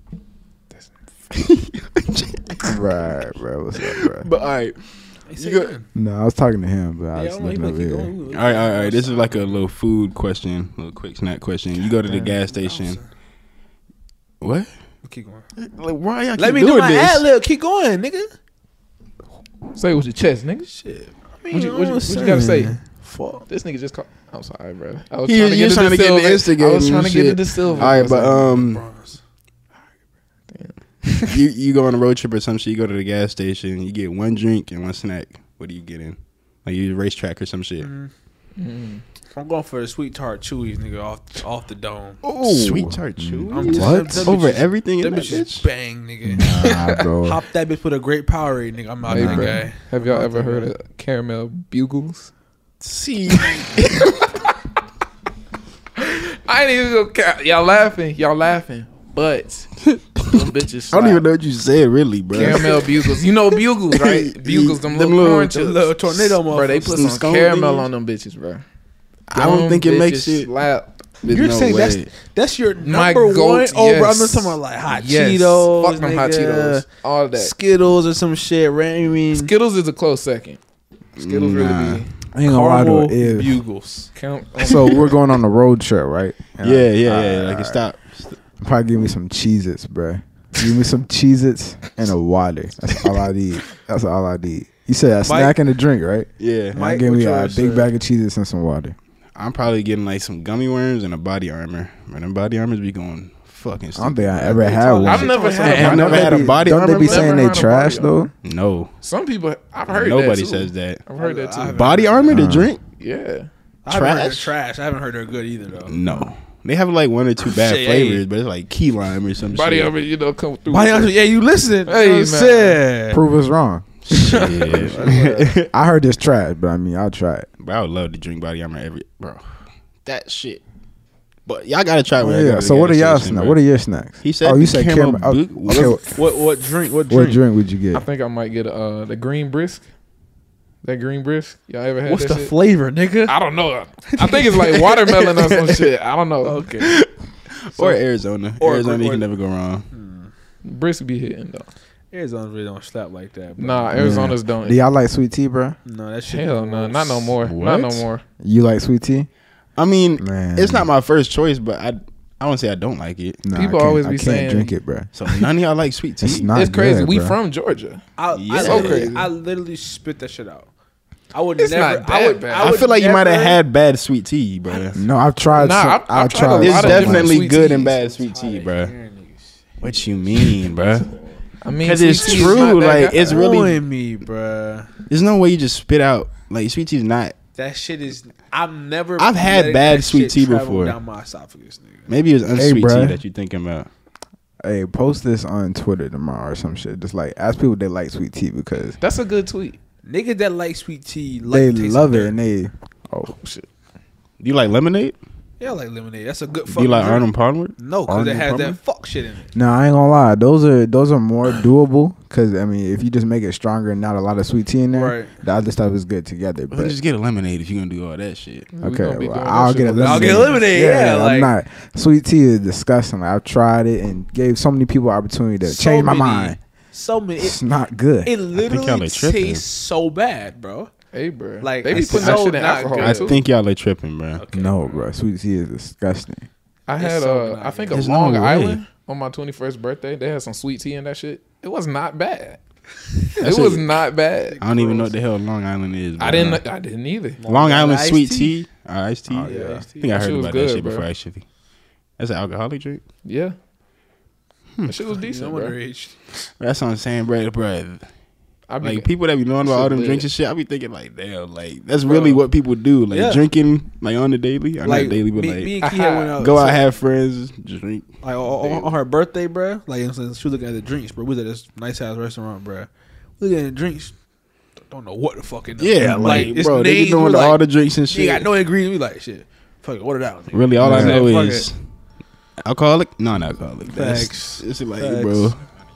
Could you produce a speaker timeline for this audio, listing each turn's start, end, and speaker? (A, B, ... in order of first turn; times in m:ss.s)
0:01.3-0:02.8 A
0:02.7-0:04.3 B
0:03.9-0:05.8 A
0:05.3-0:05.9 C
0:05.9-0:08.1 B
0:07.1-0:09.7 C
0:08.3-0:13.0 A
0:12.5-0:13.0 C
0:14.4-0:14.7 A
0:15.0-0:15.4 C
0:15.6-0:17.3 A
0:16.4-0:18.3 C
0:19.7-0:20.7 D
0:20.7-0:23.4 C
0:21.5-0:22.8 D
0:23.5-0:28.6 D
0:25.2-0:28.8 A
0:28.7-0:29.2 C
0:30.5-0:31.4 D
0:31.2-0:37.9 A
0:37.8-0:38.1 C
0:38.6-0:39.0 D
0:39.3-0:42.2 C
0:42.2-0:45.7 A
0:42.4-0:44.3 B
0:43.5-0:46.5 C
0:46.2-0:47.4 B
0:46.6-0:47.0 D
0:47.2-0:50.7 C
0:49.1-0:52.3 D
0:49.1-0:49.6 B
0:52.8-0:54.3 A
0:56.0-0:59.7 D
0:59.9-1:00.3 A
1:00.2-1:01.2 D
1:00.9-1:03.2 A
1:02.3-1:08.6 D
1:03.9-1:05.6 A
1:05.5-1:07.1 C
1:06.9-1:07.9 A
1:09.3-1:10.5 A
1:09.3-1:11.0 D
1:11.2-1:12.1 A
1:11.3-1:16.8 C
1:12.8-1:17.5 D
1:17.4-1:19.5 C
1:19.3-1:20.6 D
1:21.2-1:22.1 D
1:21.2-1:22.1 A
1:22.3-1:23.6 B
1:22.4-1:24.1 C
1:24.1-1:25.2 D
1:24.6-1:27.8 B
1:26.6-1:28.4 A
1:28.6-1:39.0 B
1:35.2-1:35.6 C
1:36.4-1:36.8 A
1:36.7-1:37.9 C
1:39.4-1:44.8 A
1:44.0-1:48.3 B
1:44.6-1:46.7 C
1:45.0-1:48.3 D
1:45.6-1:47.3 A
1:48.4-1:48.9 A
1:49.0-1:51.9 D
1:49.9-1:51.0 A
1:51.2-1:52.4 C
1:51.7-1:52.8 A
1:52.3-1:52.7 B
1:53.0-1:53.5 D
1:53.9-1:56.0 C
1:53.9-1:54.5 A
1:55.9-1:59.9 A
1:57.4-1:58.2 C
1:59.5-2:01.2 D
2:00.7-2:03.2 C
2:01.9-2:02.8 D
2:03.1-2:03.9 B
2:04.1-2:05.7 A
2:04.1-2:04.6 D
2:04.7-2:05.6 C
2:05.7-2:07.5 B
2:07.6-2:09.4 A
2:10.0-2:10.6 A
2:11.5-2:13.6 A
2:12.2-2:16.0 B
2:14.2-2:16.0 A
2:15.7-2:17.4 C
2:17.1-2:18.0 B
2:17.9-2:19.8 D
2:20.8-2:22.5 D
2:22.1-2:23.4 C
2:23.3-2:26.7 D
2:24.2-2:24.9 C
2:26.4-2:26.9 C
2:26.8-2:29.8 A
2:27.8-2:28.0 C
2:28.6-2:29.3 C
2:29.9-2:30.3 C
2:30.6-2:31.7 D
2:32.1-2:34.0 C
2:33.6-2:34.8 D
2:33.9-2:35.8 B
2:35.8-2:37.3 C
2:36.3-2:38.2 D
2:37.5-2:38.0 A
2:38.4-2:39.3 B
2:39.8-2:43.4 A
2:40.2-2:40.9 B
2:43.4-2:45.1 B
2:43.5-2:44.8 D
2:45.1-2:46.5 A
2:46.2-2:47.4 B
2:46.5-2:48.0 D
2:48.2-2:50.7 C
2:48.3-2:49.1 A
2:48.6-2:49.2 D
2:48.7-2:49.3 B
2:51.3-2:53.6 C
2:51.6-2:52.8 D
2:52.6-2:55.0 A
2:54.9-2:57.5 B
2:55.6-2:58.0 D
2:56.5-2:58.9 A
2:57.2-2:59.5 C
2:59.8-3:01.1 A
3:01.6-3:03.4 D
3:01.8-3:03.8 A
3:03.2-3:04.9 C
3:05.1-3:07.4 A
3:07.6-3:12.1 C
3:09.2-3:11.0 A
3:12.1-3:13.9 A
3:12.6-3:13.2 B
3:14.6-3:19.0 B
3:19.0-3:19.8 D
3:20.0-3:22.3 C
3:21.5-3:23.4 B
3:23.3-3:23.7 D
3:24.4-3:25.2 A
3:25.6-3:29.5 C
3:26.7-3:27.8 A
3:28.1-3:28.8 B
3:29.6-3:37.0 B
3:34.9-3:35.3 C
3:36.7-3:38.7 A
3:38.7-3:40.7 D
3:38.8-3:46.6 B
3:40.0-3:41.5 C
3:45.6-3:47.6 C
3:47.4-3:48.3 B
3:48.2-3:50.9 C
3:48.6-3:49.6 A
3:51.1-3:53.4 D
3:51.6-3:53.4 C
3:51.9-3:54.4 A
3:54.4-3:55.1 C
3:54.5-3:56.5 B
3:56.9-4:02.6 D
3:57.0-3:58.0 C
3:57.9-3:58.8 A
4:03.4-4:04.6 D
4:03.4-4:04.0 A
4:04.5-4:05.2 C
4:04.6-4:06.6 A
4:06.2-4:07.4 D
4:07.4-4:08.6 C
4:07.5-4:11.4 A
4:09.4-4:11.1 D
4:09.4-4:10.0 C
4:12.2-4:13.0 A
4:13.2-4:13.5 D
4:14.8-4:15.8 D
4:15.3-4:16.2 C
4:16.6-4:18.0 A
4:18.7-4:20.3 D
4:18.8-4:25.8 A
4:22.0-4:22.5 C
4:23.1-4:23.4 C
4:24.8-4:26.9 C
4:25.8-4:26.4 D
4:26.4-4:29.0 A
4:28.2-4:34.1 C
4:34.9-4:41.7 C
4:35.8-4:38.5 A
4:36.0-4:36.6 B
4:40.5-4:41.8 A
4:40.8-4:41.3 B
4:42.6-4:45.6 A
4:43.9-4:45.5 C